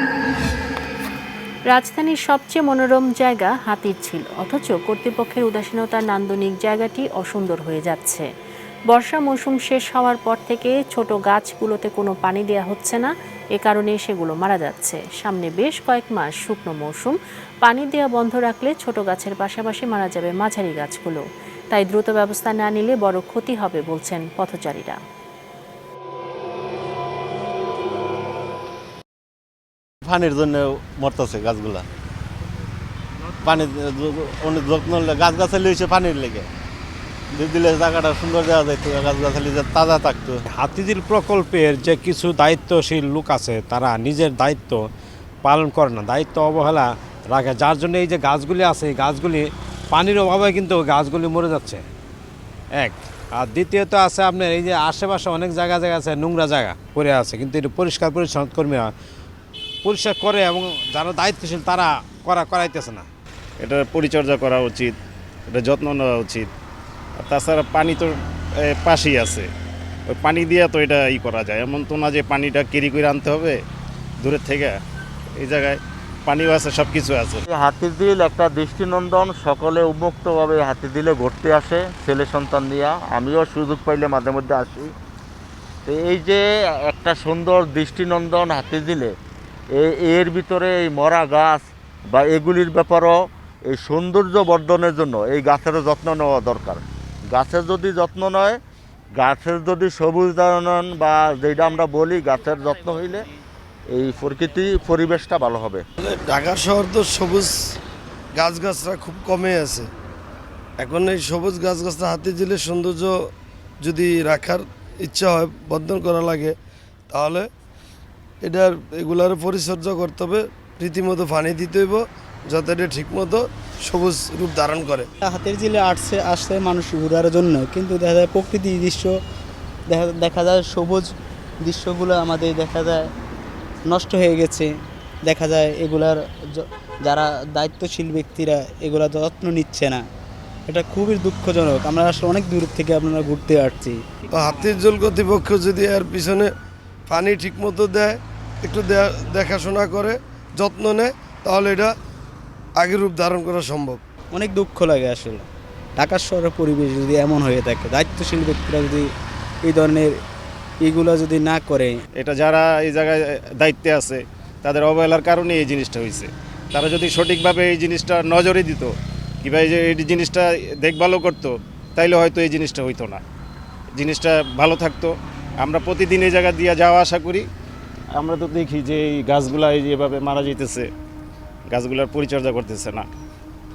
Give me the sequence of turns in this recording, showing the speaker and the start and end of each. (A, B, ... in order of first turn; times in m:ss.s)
0:01.7-0:08.3 A
0:08.9-0:25.0 A
0:30.0-0:31.9 B
0:33.4-0:36.5 B
0:37.3-0:40.4 B
0:40.5-0:44.8 C
0:45.4-0:51.8 C
0:52.8-0:58.9 C
0:59.8-1:03.1 C
1:03.6-1:05.0 D
1:05.5-1:06.5 D
1:07.2-1:08.1 D
1:08.7-1:09.5 D
1:10.1-1:13.6 D
1:14.2-1:14.8 D
1:15.4-1:17.4 D
1:17.5-1:24.9 E
1:25.8-1:29.1 E
1:29.7-1:38.6 E
1:39.2-1:43.2 E
1:43.9-1:45.8 E
1:46.1-1:47.8 F
1:48.4-1:49.9 F
1:50.8-1:53.2 F
1:53.8-1:56.5 F
1:57.1-1:57.5 F
1:58.4-2:05.1 F
2:05.3-2:09.1 G
2:09.9-2:13.0 G
2:13.9-2:14.7 G
2:15.3-2:20.0 G
2:20.7-2:24.0 G
2:24.3-2:26.5 F
2:27.1-2:31.9 F
2:32.8-2:34.0 F
2:34.3-2:35.5 G
2:36.0-2:39.0 G
2:39.7-2:40.1 G
2:40.8-2:42.0 G
2:42.2-2:53.2 D
2:54.0-2:57.5 D
2:58.2-3:00.9 D
3:01.7-3:03.1 D